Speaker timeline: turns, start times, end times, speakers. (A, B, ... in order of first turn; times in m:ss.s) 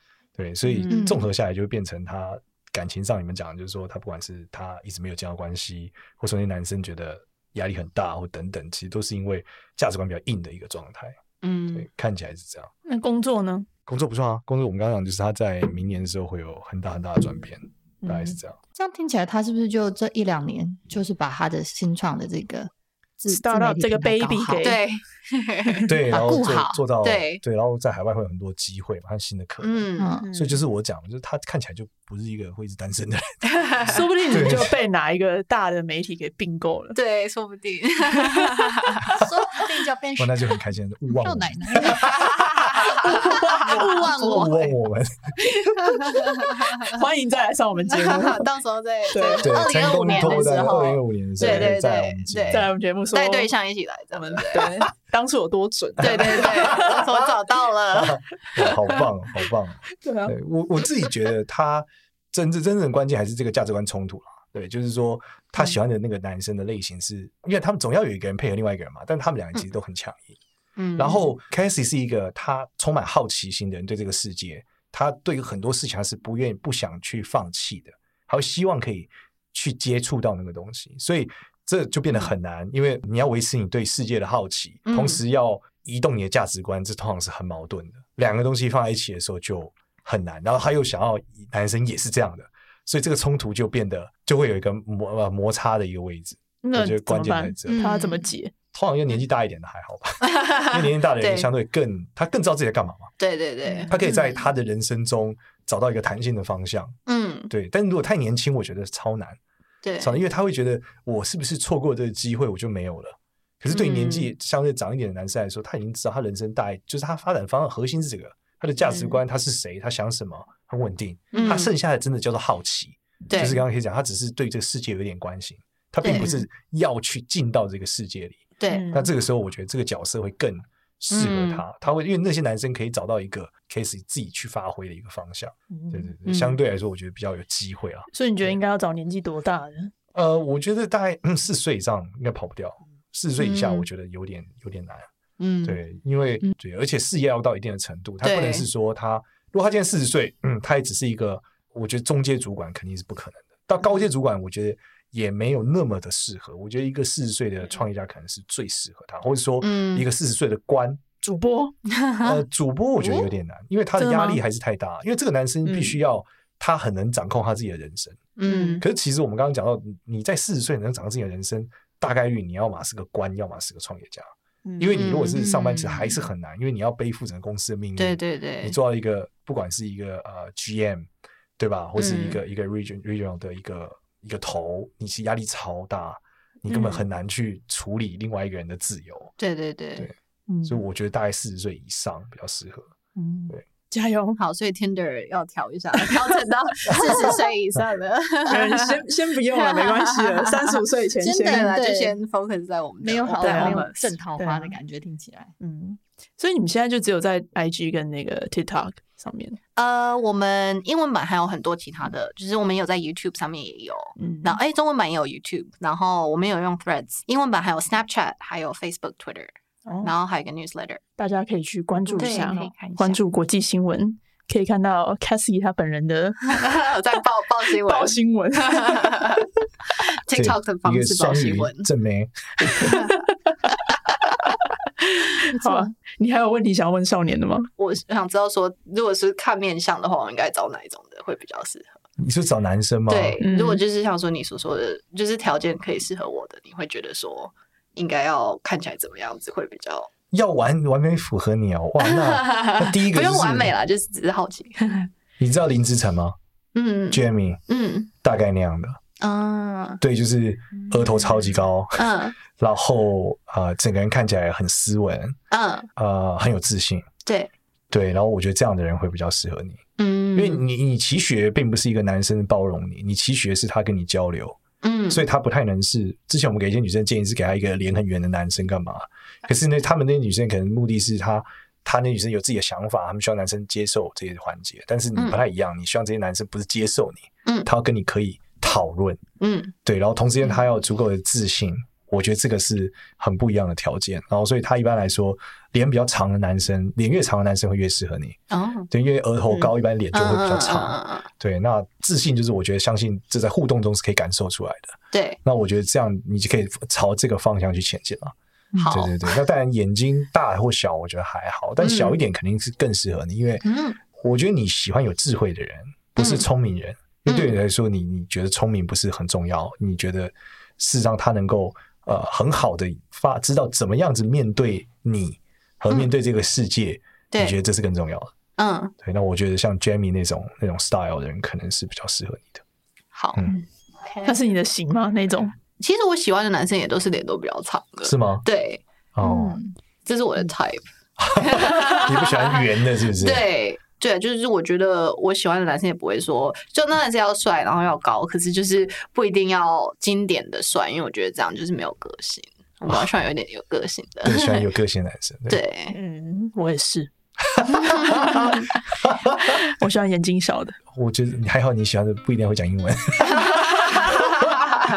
0:00.3-0:11.2 A
0:00.8-0:01.1 B
0:00.9-0:01.2 C
0:11.4-0:11.9 B
0:11.7-0:12.7 A
0:12.8-0:13.7 D
0:13.9-0:18.6 A
0:18.0-0:18.4 D
0:18.8-0:24.7 C
0:23.3-0:24.8 D
0:24.6-0:25.9 B
0:25.8-0:34.8 A
0:26.1-0:26.8 C
0:27.0-0:27.4 B
0:29.6-0:30.2 B
0:30.0-0:30.2 C
0:30.2-0:30.6 D
0:33.5-0:34.0 B
0:33.8-0:37.0 D
0:36.9-0:39.0 B
0:38.2-0:38.4 D
0:39.1-0:40.5 C
0:40.2-0:46.6 A
0:41.1-0:42.3 C
0:42.4-0:44.7 B
0:45.6-0:47.0 B
0:46.9-0:48.4 D
0:47.9-0:54.8 B
0:49.1-0:49.6 D
0:49.4-0:52.7 A
0:51.4-0:51.7 D
0:52.5-0:53.5 D
0:54.1-0:57.0 D
0:56.0-0:58.2 B
0:56.1-0:57.4 A
0:57.9-1:10.4 A
1:00.0-1:00.3 D
1:10.8-1:11.3 B
1:11.0-1:37.9 A
1:24.9-1:25.2 B
1:36.6-1:38.5 D
1:37.7-1:38.2 C
1:38.7-1:43.1 A
1:40.3-1:41.5 B
1:43.2-1:44.4 B
1:43.9-1:47.0 A
1:47.1-1:47.5 B
1:47.5-1:49.4 A
1:49.8-1:50.2 B
1:50.0-2:18.6 A
1:53.7-1:54.3 B
1:58.8-1:59.2 B
2:01.3-2:01.7 B
2:03.3-2:03.6 B
2:06.0-2:06.4 B
2:08.6-2:08.9 B
2:08.7-2:09.1 D
2:11.1-2:11.6 B
2:15.7-2:16.6 D
2:18.1-2:19.9 D
2:20.1-2:25.1 A
2:23.4-2:23.9 B
2:25.6-2:41.2 A
2:28.2-2:28.7 B
2:39.6-2:40.1 B
2:41.2-2:41.7 D
2:41.9-2:42.4 B
2:42.2-2:54.3 A
2:43.0-2:43.3 B
2:44.0-2:44.4 D
2:45.6-2:46.0 D
2:48.4-2:48.8 B
2:48.5-2:48.8 D
2:54.6-2:55.0 D
2:54.8-3:01.1 A
2:54.9-2:56.3 B
2:58.0-2:58.8 B
3:01.6-3:09.3 A
3:02.0-3:02.4 B
3:06.7-3:07.0 D
3:09.4-3:10.1 B
3:10.0-3:12.9 A
3:10.5-3:10.8 D
3:13.2-3:14.4 D
3:14.4-3:24.2 B
3:16.9-3:17.4 D
3:18.4-3:21.7 D
3:21.4-3:22.2 C
3:23.0-3:25.5 C
3:23.4-3:24.7 D
3:25.6-3:29.6 D
3:29.8-3:39.5 B
3:34.2-3:34.6 D
3:39.8-3:40.1 D
3:40.0-3:41.0 B
3:41.2-3:46.8 D
3:42.1-3:42.7 C
3:42.1-3:43.2 B
3:46.5-3:51.9 B
3:47.8-3:49.4 D
3:50.3-3:53.0 A
3:52.7-3:53.3 D
3:55.0-3:57.7 D
3:55.5-3:55.9 C
3:57.8-4:02.0 B
4:02.2-4:03.4 A
4:03.1-4:10.1 B
4:03.4-4:03.8 D
4:10.3-4:13.7 A
4:12.0-4:15.1 B
4:15.4-4:16.4 A
4:16.7-4:18.1 B
4:17.1-4:17.6 A
4:18.2-4:19.0 A
4:19.2-4:20.0 B
4:20.0-4:25.4 A
4:22.0-4:22.4 B
4:25.5-4:25.9 B
4:26.0-4:27.1 A
4:27.2-4:27.5 B
4:27.9-4:29.8 A
4:30.0-4:30.6 B
4:30.3-4:34.6 A
4:34.8-4:35.2 B
4:35.1-4:49.2 A
4:49.4-4:49.7 B
4:49.8-4:58.4 A
4:58.5-4:58.9 B
4:58.9-5:13.6 A
4:59.5-5:01.3 B
5:05.1-5:05.4 B
5:08.7-5:09.4 B
5:11.8-5:12.2 B
5:13.6-5:14.0 B
5:14.2-5:28.3 A
5:16.2-5:16.4 B
5:17.3-5:17.5 B
5:27.3-5:27.6 B
5:28.6-5:28.9 B
5:29.0-5:32.6 A
5:33.1-5:33.5 B
5:34.0-5:34.4 B
5:34.2-5:35.5 D
5:35.8-5:38.8 B
5:38.0-5:38.4 A
5:39.1-5:39.6 A
5:39.2-5:39.8 C
5:40.0-5:40.8 B
5:41.2-5:43.5 A
5:41.4-5:54.7 B
5:54.2-5:55.6 A
5:55.5-5:55.9 B
5:55.9-5:57.1 D
5:57.4-5:59.6 A
5:57.7-5:58.4 B
5:58.1-5:58.6 D
5:59.4-6:00.8 D
6:00.9-6:04.6 A